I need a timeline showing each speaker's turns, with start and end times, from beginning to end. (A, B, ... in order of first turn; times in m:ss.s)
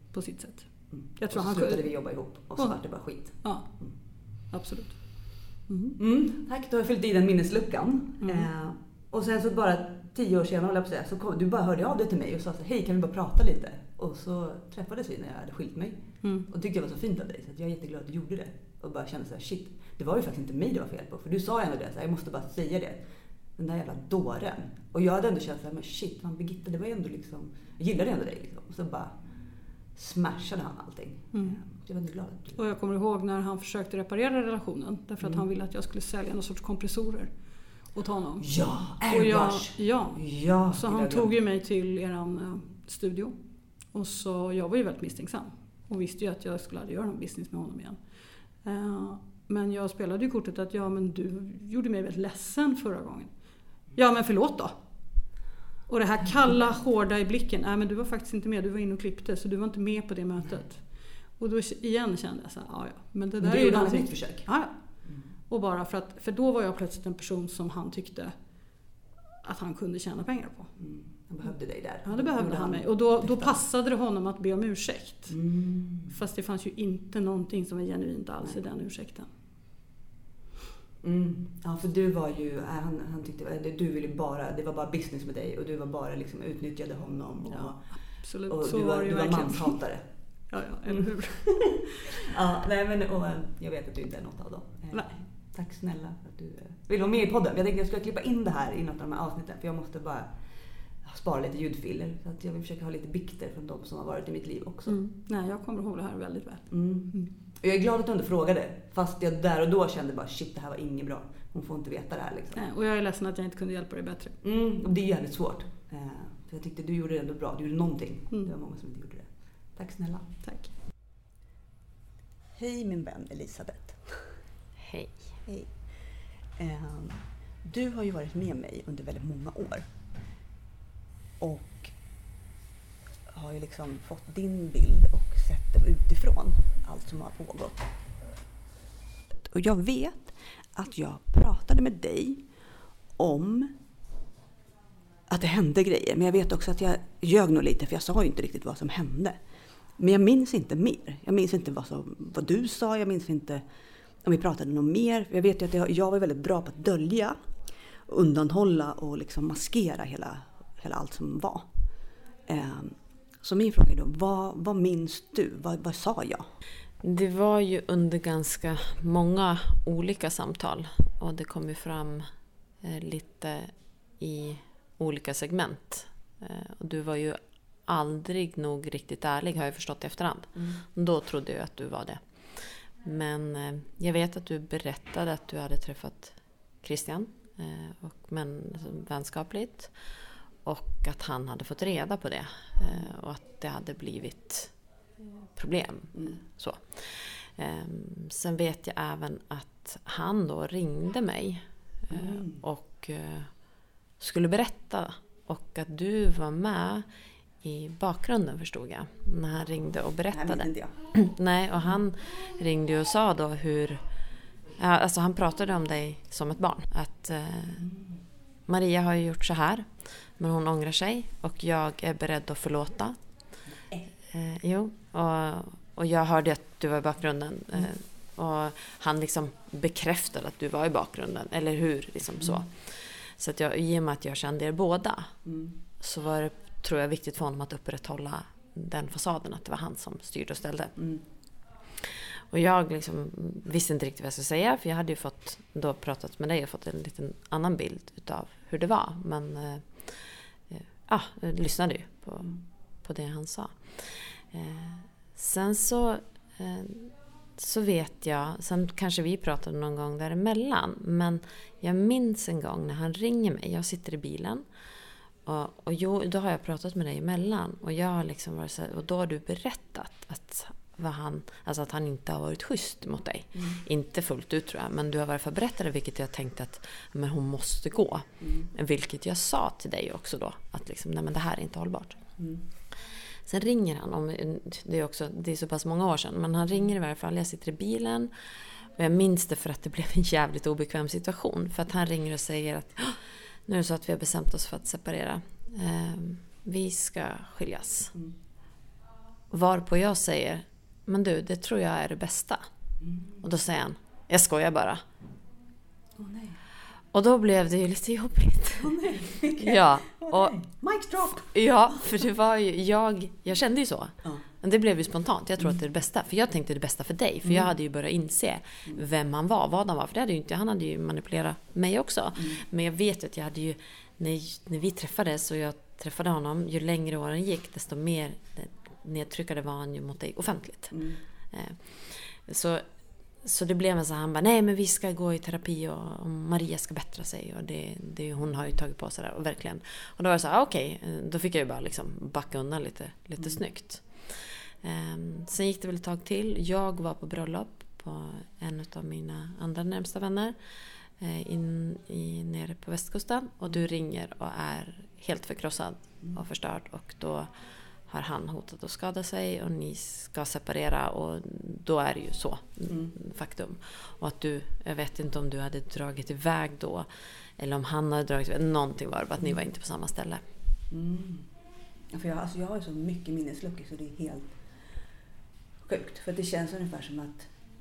0:00.1-0:06.0 A
0:00.9-0:03.9 B
0:06.0-0:29.2 B
0:08.2-0:08.5 A
0:16.2-0:16.5 A
0:29.9-0:32.6 B
0:31.3-0:31.6 A
0:32.5-0:53.4 A
0:35.2-0:35.5 B
0:38.4-0:41.3 B
0:53.9-0:55.4 A
0:55.9-1:08.3 A
1:03.4-1:04.5 B
1:05.0-1:05.3 B
1:09.4-1:10.7 A
1:10.8-1:13.6 B
1:12.0-1:15.4 A
1:15.3-1:16.2 B
1:16.1-1:19.3 A
1:21.0-1:31.6 B
1:27.5-1:29.8 A
1:30.5-1:31.8 A
1:32.1-1:40.4 B
1:41.0-1:45.0 B
1:44.9-1:47.3 A
1:46.7-1:52.6 B
1:52.5-1:54.4 A
1:54.4-2:00.3 B
2:00.4-2:00.7 A
2:02.5-2:04.4 B
2:04.8-2:05.2 C
2:05.4-2:09.9 B
2:11.4-2:12.0 B
2:13.3-2:18.0 B
2:19.4-2:22.4 B
2:23.2-2:23.7 B
2:25.3-2:29.4 B
2:30.0-2:33.6 B
2:34.2-2:37.4 B
2:38.0-2:41.7 B
2:42.5-2:46.5 B
2:47.0-2:52.3 C
2:52.8-3:23.6 C
3:00.5-3:00.8 B
3:16.1-3:16.4 B
3:22.1-3:22.6 B
3:24.2-3:27.0 C
3:27.6-3:34.0 C
3:30.3-3:30.9 B
3:34.8-3:37.8 C
3:37.8-3:38.2 B
3:38.7-3:43.2 C
3:44.3-3:55.3 C
3:55.4-3:55.8 B
3:56.0-4:00.9 C
4:01.0-4:01.2 B
4:02.0-4:24.6 C
4:25.4-4:42.2 C
4:33.5-4:33.8 B
4:38.4-4:38.7 B
4:42.4-4:42.6 B
4:43.4-4:48.3 C
4:49.0-4:58.1 C
4:59.5-5:02.6 C
5:03.0-5:03.4 B
5:03.4-5:05.0 C
5:06.2-5:06.6 B
5:07.1-5:10.6 C
5:08.8-5:12.0 B
5:11.2-5:31.0 C
5:17.4-5:17.7 B
5:22.4-5:22.6 B
5:30.9-5:31.2 B
5:31.5-5:32.8 C
5:33.4-5:50.6 C
5:43.4-5:43.6 B
5:51.2-5:57.5 C
5:58.1-6:07.1 C
6:02.9-6:03.2 B
6:07.6-6:10.4 C
6:10.9-6:11.5 B
6:12.1-6:14.6 B
6:15.8-6:17.5 B